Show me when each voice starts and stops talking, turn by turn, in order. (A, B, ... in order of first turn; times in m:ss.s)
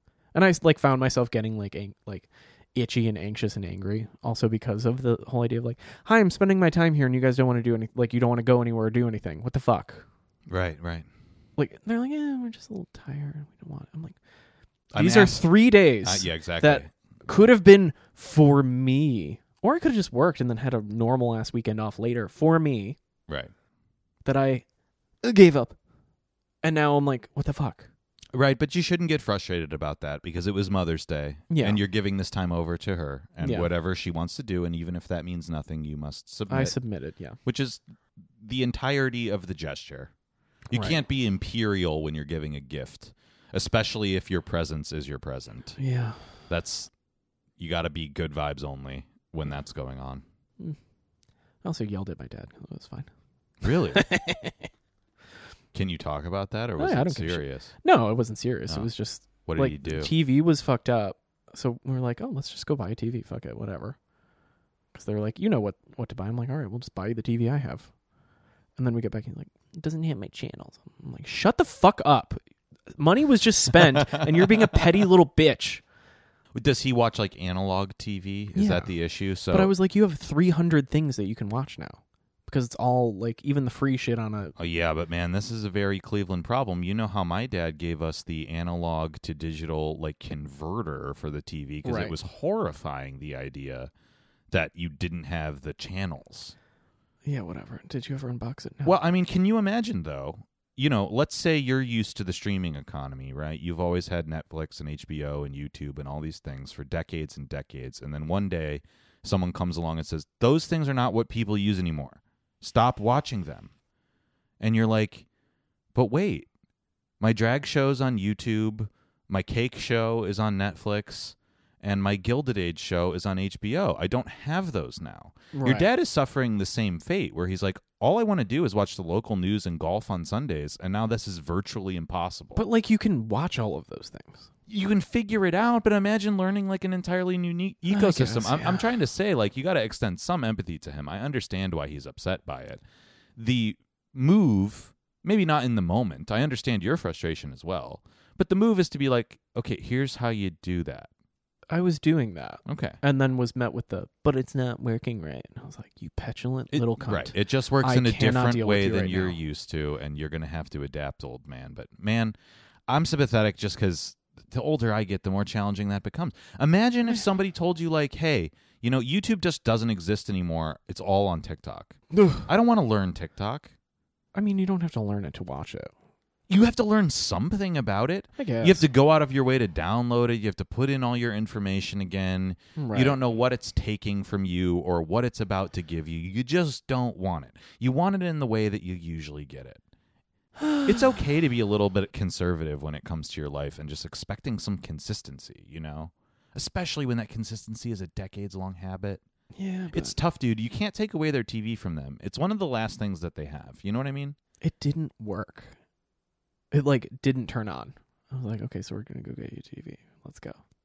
0:00.3-0:10.0 A
0:10.5-0:11.1 B
0:11.6-0:14.2 A
0:14.9-0:15.5 B
0:14.9-0:23.0 A
0:16.0-0:16.9 B
0:23.3-0:23.5 B
0:24.2-0:24.6 A
0:25.2-0:25.8 A
0:26.6-0:27.9 A
0:28.3-0:36.7 B
0:31.5-0:31.8 A
0:33.4-0:33.7 A
0:36.5-0:37.4 A
0:37.4-0:37.8 B
0:38.4-0:40.1 B
0:40.7-0:41.0 A
0:40.7-0:45.8 B
0:45.8-0:46.2 A
0:46.5-0:46.9 B
0:47.6-0:50.2 B
0:51.6-0:53.1 A
0:53.6-0:54.1 B
0:53.9-0:54.7 A
0:55.7-0:57.7 B
0:56.8-1:04.0 A
0:59.4-1:00.1 B
1:04.9-1:07.9 A
1:08.8-1:12.4 A
1:12.9-1:15.8 A
1:16.5-1:19.7 B
1:18.6-1:18.9 A
1:19.5-1:24.6 A
1:24.6-1:33.9 B
1:31.8-1:32.1 A
1:34.5-1:36.6 B
1:37.2-1:38.9 A
1:38.8-1:53.7 B
1:54.6-1:55.2 B
1:55.9-1:56.5 B
1:57.2-2:12.6 B
2:05.5-2:05.9 A
2:12.6-2:14.5 A
2:14.7-2:22.8 B
2:17.9-2:18.9 A
2:23.4-2:31.1 B
2:31.7-2:39.4 A
2:32.6-2:33.0 B
2:36.7-2:42.3 B
2:42.9-2:53.7 B
2:52.1-2:52.5 A
2:54.3-2:55.9 A
2:56.5-3:09.8 B
2:58.4-2:58.8 A
3:02.8-3:03.2 A
3:10.6-3:11.0 A
3:10.8-3:19.2 B
3:19.6-3:20.1 A
3:19.9-3:24.4 B
3:24.6-3:25.8 A
3:26.7-3:30.6 A